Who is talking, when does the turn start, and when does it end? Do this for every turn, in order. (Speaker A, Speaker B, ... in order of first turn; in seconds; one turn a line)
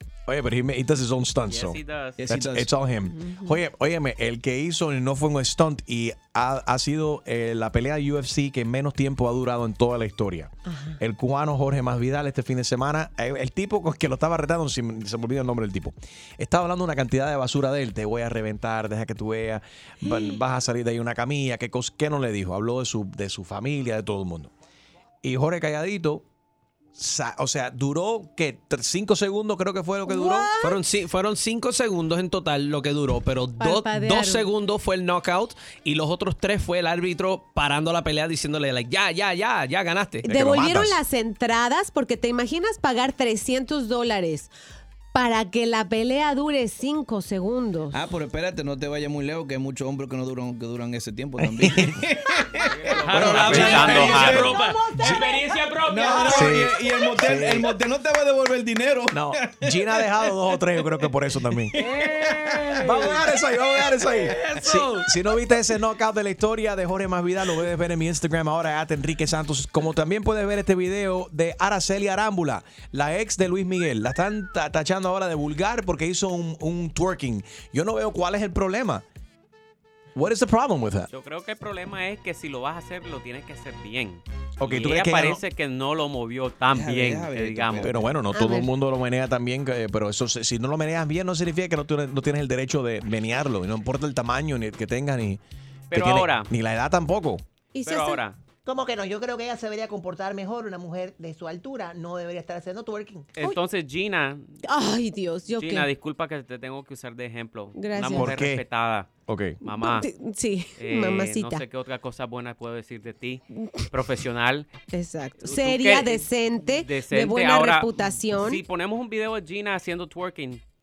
Speaker A: 0.3-24.5
Speaker B: 1.5-2.2
Speaker C: 2.2-2.7
Speaker D: 3.2-3.6
Speaker D: 10.7-11.0
Speaker D: 20.1-20.4
Speaker A: 25.2-26.3
Speaker A: 27.0-30.5
Speaker D: 30.1-30.8
Speaker E: 30.6-40.3
Speaker D: 33.6-34.5
Speaker A: 40.2-41.0
Speaker D: 40.3-44.5
Speaker D: 45.1-48.0
Speaker C: 47.9-55.3
Speaker A: 51.6-52.0
Speaker B: 52.6-54.5
Speaker A: 53.1-54.4
Speaker E: 53.1-56.5
Speaker D: 54.6-54.9
Speaker C: 55.8-59.4
Speaker A: 56.2-57.7
Speaker A: 59.1-61.9
Speaker E: 61.8-63.3
Speaker A: 62.8-79.0
Speaker E: 64.1-65.1
Speaker A: 80.2-81.1
Speaker B: 81.1-87.9
Speaker A: 84.6-85.4
Speaker C: 86.7-88.1
Speaker A: 87.8-97.4
Speaker D: 88.3-88.7
Speaker B: 95.9-96.5
Speaker D: 97.7-98.2
Speaker B: 97.9-98.4
Speaker F: 98.7-103.3
Speaker B: 103.4-104.5
Speaker D: 104.7-105.9
Speaker B: 105.6-109.1
Speaker D: 107.8-108.3
Speaker A: 108.1-108.6
Speaker A: 109.3-109.6
Speaker B: 109.6-110.1
Speaker D: 109.7-111.6
Speaker B: 110.8-114.7
Speaker D: 114.9-118.6
Speaker B: 115.4-120.6